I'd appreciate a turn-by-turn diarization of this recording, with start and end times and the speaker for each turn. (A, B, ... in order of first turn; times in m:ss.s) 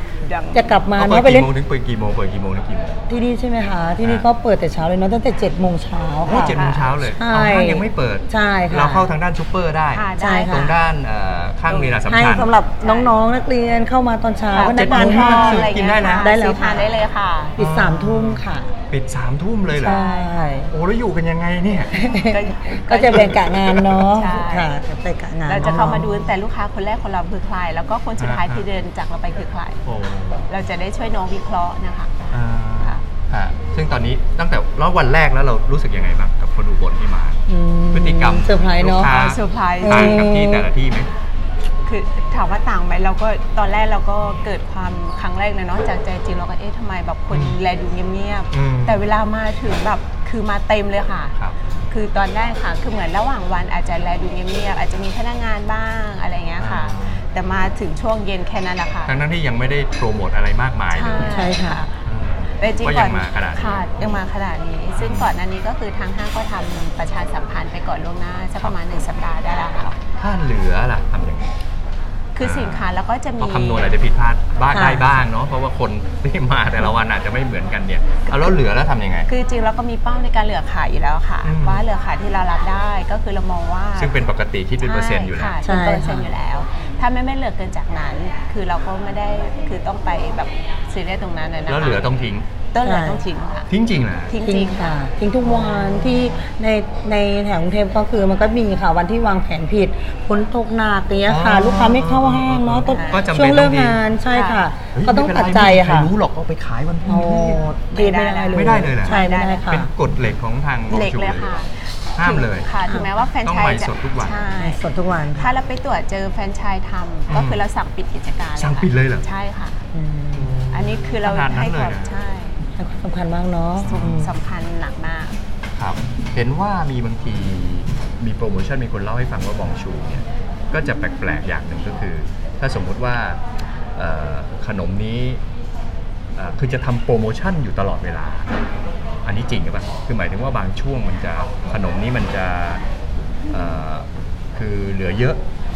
0:00.2-0:00.8 A
0:00.6-0:01.5 B
0:01.0-0:03.1 C
0:03.1-0:09.1 B
0:04.0-0:04.3 C
0:06.2-0:12.5 C
0:06.5-0:06.9 A
0:09.9-0:10.7 A
0:10.2-0:10.8 B
0:11.7-0:12.0 A
0:12.0-0:16.9 B
0:12.8-0:13.1 A
0:14.5-0:17.6 A
0:14.6-0:16.4 C
0:17.6-0:18.7 B
0:17.6-0:20.0 C
0:19.8-0:20.4 A
0:19.8-0:20.7 B
0:20.7-0:22.0 C
0:21.9-0:26.1 B
0:22.2-0:24.8 A
0:23.1-0:24.0 C
0:25.4-0:29.8 A
0:25.6-0:26.3 C
0:28.2-0:28.6 C
0:29.8-0:30.5 C
0:30.5-0:32.2 A
0:32.3-0:41.1 C
0:37.5-0:39.2 B
0:39.0-0:40.3 A
0:39.8-0:40.7 B
0:41.8-0:51.4 A
0:47.3-0:47.6 C
0:48.5-0:49.0 C
0:51.9-0:59.2 A
0:56.6-0:57.2 C
0:59.1-1:01.5 C
1:00.9-1:02.0 A
1:01.3-1:01.8 B
1:02.0-1:04.2 C
1:02.6-1:10.0 A
1:05.0-1:05.3 C
1:10.1-1:11.6 C
1:12.4-1:14.0 A
1:12.4-1:19.3 C
1:14.7-1:15.2 B
1:19.3-1:24.2 A
1:21.4-1:21.9 C
1:24.0-1:25.6 C
1:24.8-1:32.2 A
1:25.6-1:26.3 B
1:31.7-1:32.5 C
1:32.7-1:33.7 A
1:32.8-1:33.2 B
1:33.7-1:34.4 C
1:34.3-1:34.9 A
1:34.4-1:46.2 B
1:41.3-1:44.0 C
1:42.9-1:43.2 A
1:44.3-1:44.6 A
1:44.9-1:47.7 C
1:47.1-1:49.9 B
1:47.9-1:49.9 A
1:48.5-1:51.5 C
1:50.9-1:54.8 A
1:52.2-1:52.7 C
1:53.4-1:54.4 C
1:54.6-1:55.5 B
1:55.3-1:59.8 A
1:57.3-1:57.6 C
1:58.6-1:59.3 C
1:59.9-2:00.5 B
2:00.4-2:02.1 C
2:00.7-2:02.6 A
2:02.8-2:04.3 B
2:03.8-2:04.3 C
2:03.8-2:05.4 A
2:05.8-2:13.4 C
2:14.0-2:15.4 C
2:16.4-2:18.6 C
2:19.2-2:22.8 C
2:23.5-2:25.4 C